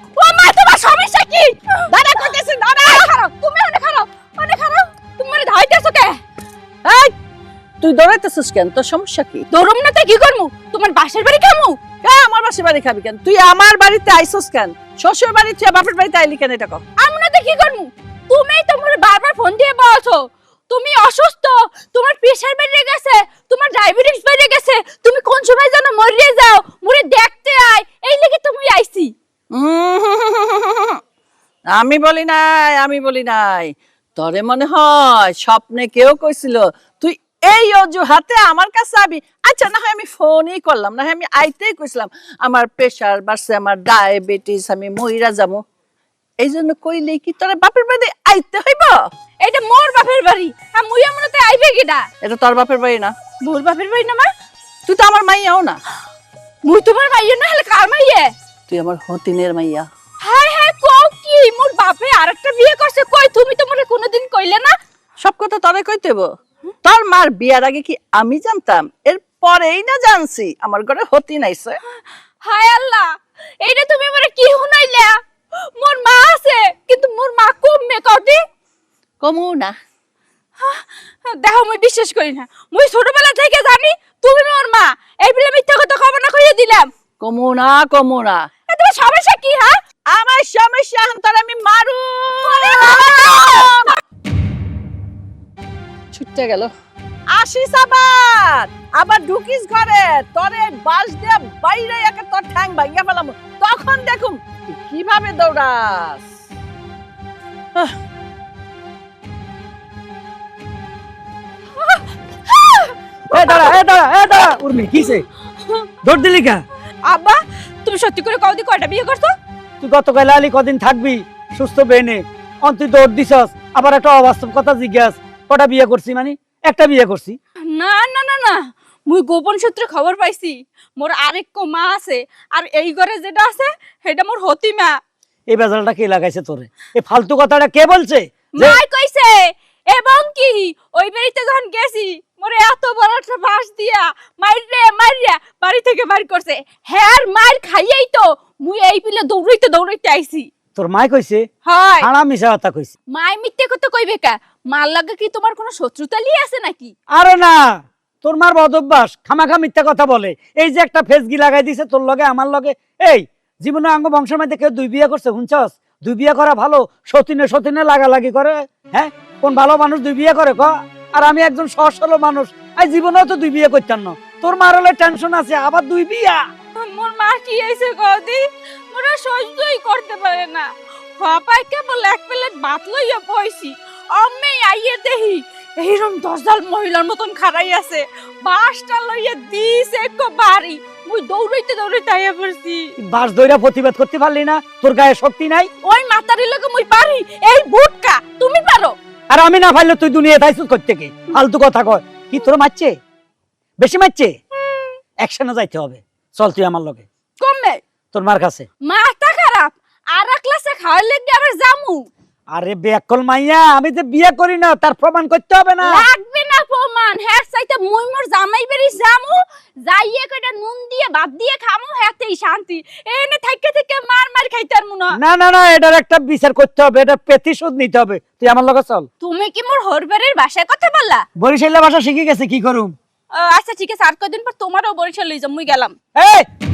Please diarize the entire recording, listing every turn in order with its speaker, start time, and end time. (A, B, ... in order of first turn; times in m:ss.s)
0:00.2-0:06.2 A
0:02.0-0:03.1 B
0:06.8-0:07.1 B
0:07.8-0:09.4 B
0:09.5-0:11.8 A
0:12.0-0:16.8 B
0:17.0-0:29.1 A
0:29.5-0:30.7 B
0:31.7-0:45.6 B
0:46.4-0:48.9 B
0:49.4-0:52.0 A
0:52.2-0:53.1 B
0:53.4-0:54.3 A
0:54.9-0:55.8 B
0:56.6-0:58.3 A
0:58.7-0:59.8 B
1:00.2-1:04.7 A
1:05.2-1:06.3 B
1:06.8-1:11.7 B
1:12.4-1:15.2 A
1:15.8-1:18.4 A
1:19.2-1:19.7 B
1:20.6-1:26.9 A
1:27.2-1:28.4 B
1:28.7-1:29.8 A
1:30.1-1:33.8 B
1:32.4-1:34.0 A
1:36.1-1:36.7 B
1:37.3-1:46.3 B
1:52.6-1:52.9 A
1:53.3-1:55.2 C
1:55.6-1:55.9 A
1:56.0-1:56.6 C
1:57.0-1:59.3 A
1:59.8-2:07.4 C
2:07.7-2:15.0 A
2:15.5-2:18.8 C
2:18.6-2:30.5 A
2:30.8-2:31.5 C
2:31.6-2:32.1 A
2:32.0-2:32.9 C
2:33.1-2:36.9 A
2:37.1-2:56.4 C
2:56.8-3:00.7 A
3:01.2-3:13.0 A
3:13.0-3:15.7 C
3:15.8-3:19.0 A
3:19.3-3:23.0 C
3:23.8-3:24.4 C
3:25.2-3:27.1 C
3:27.4-3:27.8 A
3:28.1-3:28.7 C
3:28.8-3:32.1 A
3:32.5-3:36.1 C
3:35.8-3:45.2 A
3:45.1-3:49.1 C
3:49.2-3:51.3 A
3:51.4-3:53.0 C
3:53.3-3:56.0 A
3:56.2-3:56.5 C